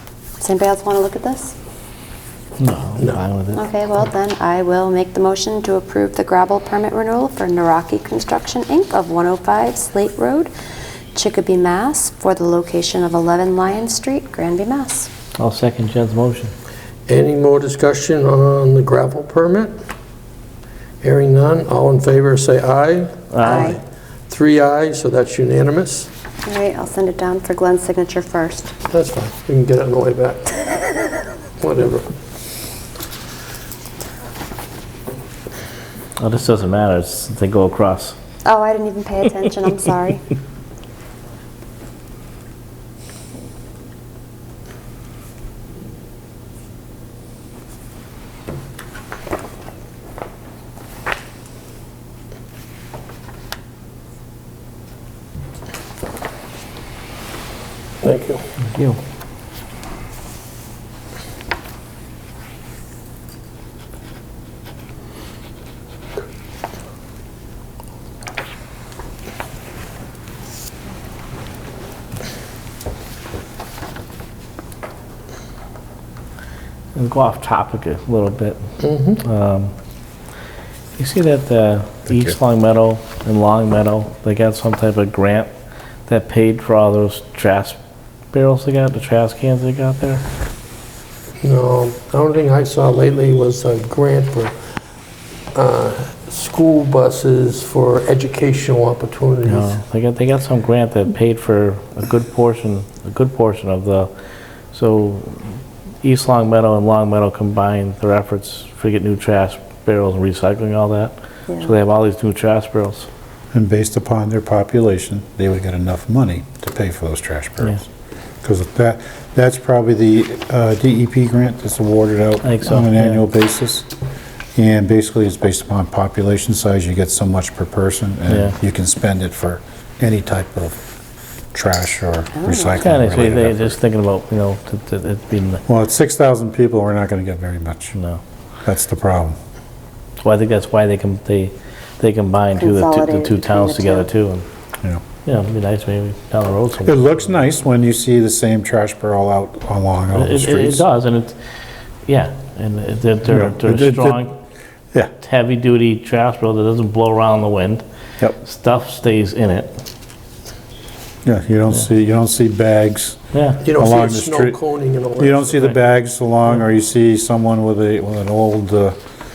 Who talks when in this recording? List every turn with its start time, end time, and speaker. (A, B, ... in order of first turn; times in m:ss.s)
0:00.4-0:01.5 A
0:02.6-0:03.6 B
0:03.0-0:03.2 C
0:03.5-0:10.5 A
0:11.1-0:15.1 A
0:15.4-0:16.5 B
0:17.1-0:19.8 C
0:21.0-0:26.1 C
0:23.3-0:23.8 B
0:23.4-0:23.8 A
0:26.4-0:28.7 A
0:28.9-0:30.6 C
0:31.6-0:32.1 C
0:36.2-0:38.1 B
0:38.4-0:40.2 A
0:58.0-0:58.4 C
0:58.7-0:59.0 B
1:16.9-1:18.6 B
1:18.8-1:19.2 C
1:19.2-1:19.7 B
1:21.0-1:25.5 B
1:22.1-1:22.3 D
1:26.1-1:27.8 B
1:28.3-1:30.2 B
1:31.4-1:34.5 C
1:35.5-1:39.8 C
1:39.4-1:44.1 B
1:44.7-1:53.1 B
1:53.5-1:57.9 D
1:58.4-2:03.9 D
2:02.4-2:03.2 B
2:04.5-2:10.8 D
2:08.3-2:08.5 B
2:11.5-2:13.8 D
2:12.3-2:13.0 A
2:12.8-2:15.6 B
2:15.7-2:18.0 D
2:17.9-2:18.2 B
2:18.6-2:19.4 D
2:20.2-2:24.4 B
2:22.6-2:24.1 A
2:25.2-2:27.4 B
2:26.8-2:30.8 D
2:30.1-2:31.4 B
2:32.0-2:34.3 B
2:33.3-2:34.3 D
2:35.2-2:37.8 B
2:38.4-2:39.8 B
2:41.2-2:43.2 D
2:43.3-2:43.6 B
2:43.6-2:45.7 C
2:43.7-2:44.6 D
2:45.2-2:49.0 D